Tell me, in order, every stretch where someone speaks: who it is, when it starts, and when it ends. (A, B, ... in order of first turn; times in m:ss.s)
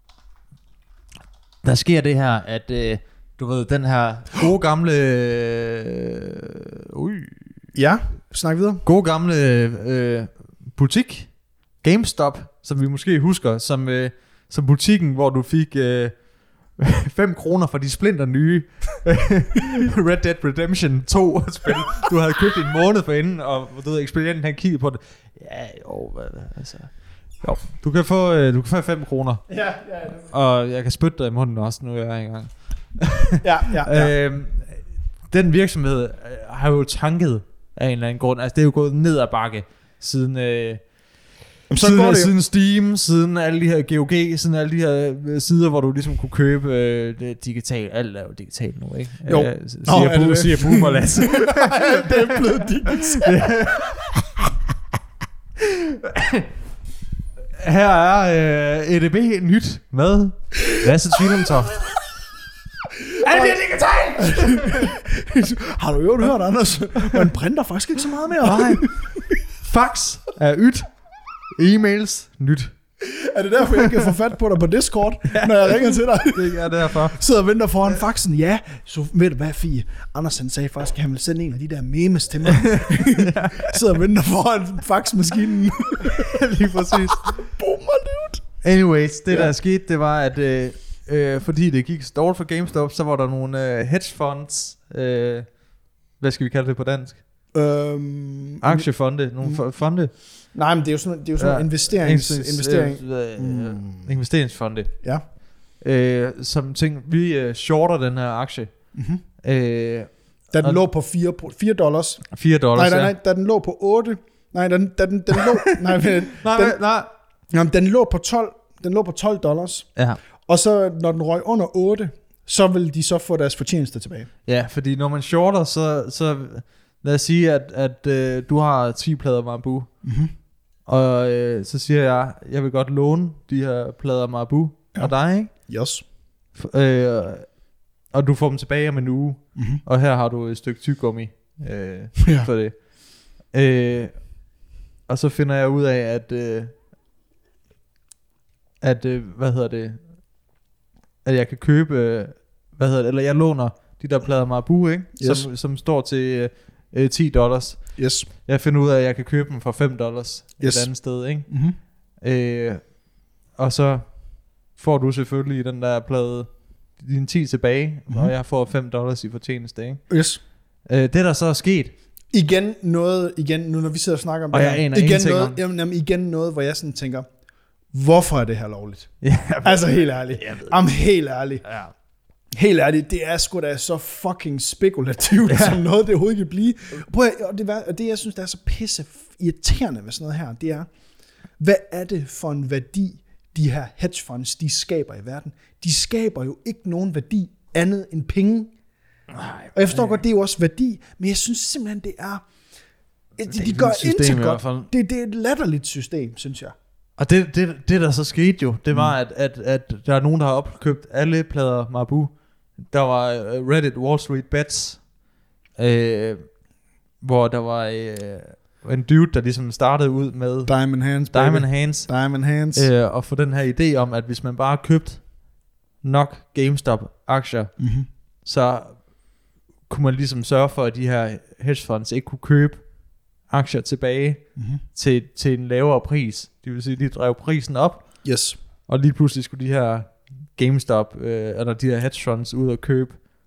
0:01.6-0:07.5 A
0:07.8-0:08.8 B
0:08.8-0:29.5 A
0:29.5-0:30.3 B
0:30.3-0:40.9 A
0:33.4-0:34.1 B
0:41.7-0:42.3 B
0:41.8-0:54.0 A
0:49.3-0:54.0 B
0:55.6-0:56.5 A
0:57.6-1:01.8 A
1:02.9-1:03.6 B
1:03.2-1:05.0 A
1:04.2-1:09.4 B
1:08.4-1:10.9 A
1:11.6-1:12.8 A
1:13.0-1:28.4 B
1:15.3-1:17.2 A
1:22.5-1:23.8 A
1:26.0-1:27.5 A
1:28.6-1:35.6 A
1:36.2-1:37.2 A
1:37.5-1:38.9 B
1:38.6-1:40.1 A
1:40.5-1:44.1 B
1:41.4-1:45.0 A
1:45.7-1:50.8 A
1:48.9-1:49.2 B
1:50.5-1:56.8 B
1:52.3-1:53.1 A
1:56.3-1:57.1 A
1:57.5-1:59.9 B
2:00.5-2:04.3 B
2:04.5-2:09.9 A
2:10.0-2:10.3 B
2:10.9-2:15.5 A
2:15.0-2:16.0 B
2:16.5-2:22.9 A
2:19.6-2:19.8 B
2:22.2-2:22.5 B
2:23.4-2:24.5 A
2:25.1-2:26.8 A
2:28.8-2:30.0 A
2:31.2-2:41.5 A
2:35.2-2:35.5 B
2:38.0-2:38.3 B
2:40.6-2:40.9 B
2:41.4-2:41.8 B
2:42.2-2:43.0 A
2:43.6-2:50.0 A
2:50.1-2:50.4 B
2:50.8-2:52.0 A
2:52.3-2:57.3 B
2:54.5-2:55.6 A
2:57.9-3:01.6 B
2:59.2-3:00.8 A
3:01.6-3:01.9 A
3:02.5-3:10.9 B
3:05.5-3:05.8 A
3:11.6-3:18.7 B
3:19.3-3:20.2 A
3:19.7-3:22.5 B
3:23.4-3:26.8 B
3:23.5-3:24.9 A
3:27.2-3:35.1 A
3:35.8-3:36.6 A
3:37.2-3:42.1 A
3:40.7-3:42.9 B
3:42.7-3:45.4 A
3:46.0-3:47.8 A
3:47.8-3:48.1 B
3:48.4-3:49.1 A
3:49.9-3:58.2 A
3:54.6-3:54.8 B
3:58.2-3:58.6 B
3:58.9-4:03.2 A